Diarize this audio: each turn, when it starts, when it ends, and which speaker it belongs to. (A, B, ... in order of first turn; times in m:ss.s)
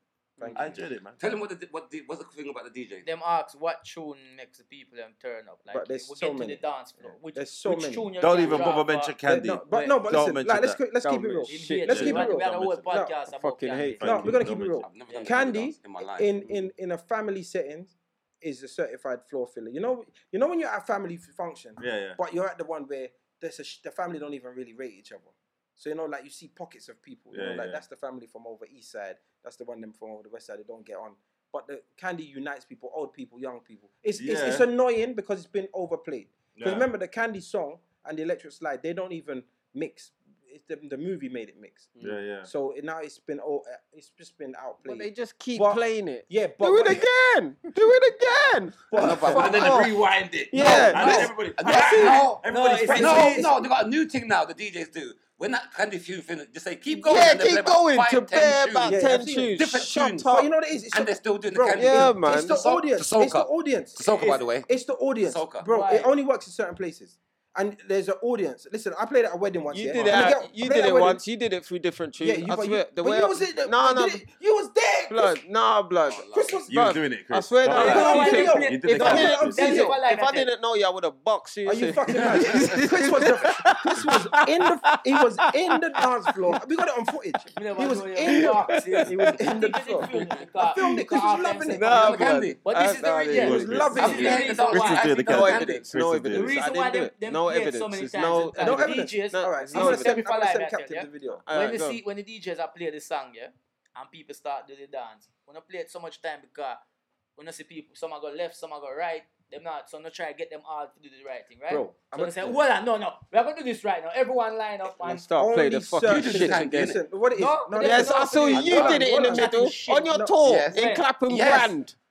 0:00.4-0:00.8 A
0:00.5-0:01.2 B
0:01.2-0:03.1 C
0:03.0-0:09.2 D
0:05.7-0:08.1 A
0:08.2-0:10.8 B
0:09.2-0:13.1 A
0:09.7-0:10.0 D
0:11.0-0:12.2 E
0:11.5-0:14.0 D
0:11.9-0:12.9 B
0:13.3-0:14.4 E
0:14.0-0:14.9 B
0:14.0-0:47.1 A
0:14.8-0:16.3 C
0:15.1-0:15.4 D
0:21.8-0:22.2 B
0:27.3-0:27.8 B
0:34.2-0:34.7 B
0:36.6-0:36.9 B
0:42.0-0:42.5 B
0:44.8-0:49.9 E
0:48.9-0:49.8 A
0:49.0-0:49.9 C
0:49.2-0:53.4 B
0:50.5-0:51.4 E
0:50.5-1:00.4 C
0:51.8-0:52.2 A
0:52.5-0:53.5 D
0:52.8-0:53.6 A
0:57.0-1:00.5 E
0:58.8-1:11.2 A
1:00.9-1:04.7 C
1:01.7-1:02.7 E
1:05.2-1:05.6 C
1:05.6-1:06.1 D
1:09.7-1:14.2 E
1:09.9-1:10.4 B
1:12.2-1:15.4 A
1:15.1-1:26.5 E
1:16.1-1:16.6 C
1:16.3-1:16.9 A
1:16.7-1:19.7 B
1:17.7-1:20.0 A
1:17.7-1:20.5 D
1:21.6-1:32.2 A
1:22.4-1:22.8 C
1:27.6-1:35.2 D
1:28.3-1:29.3 E
1:30.8-1:34.3 E
1:31.9-1:32.6 C
1:33.3-1:36.6 B
1:33.4-1:34.6 A
1:33.9-1:35.9 C
1:35.2-1:40.2 E
1:36.3-1:46.8 D
1:38.6-1:41.4 A
1:41.4-1:42.0 E
1:47.4-1:55.3 D
1:51.7-1:52.6 A
1:55.0-1:56.9 E
1:55.3-2:00.4 A
1:56.0-1:57.0 C
1:57.3-2:00.1 D
1:57.8-2:02.0 E
2:00.4-2:01.7 C
2:00.7-2:01.0 D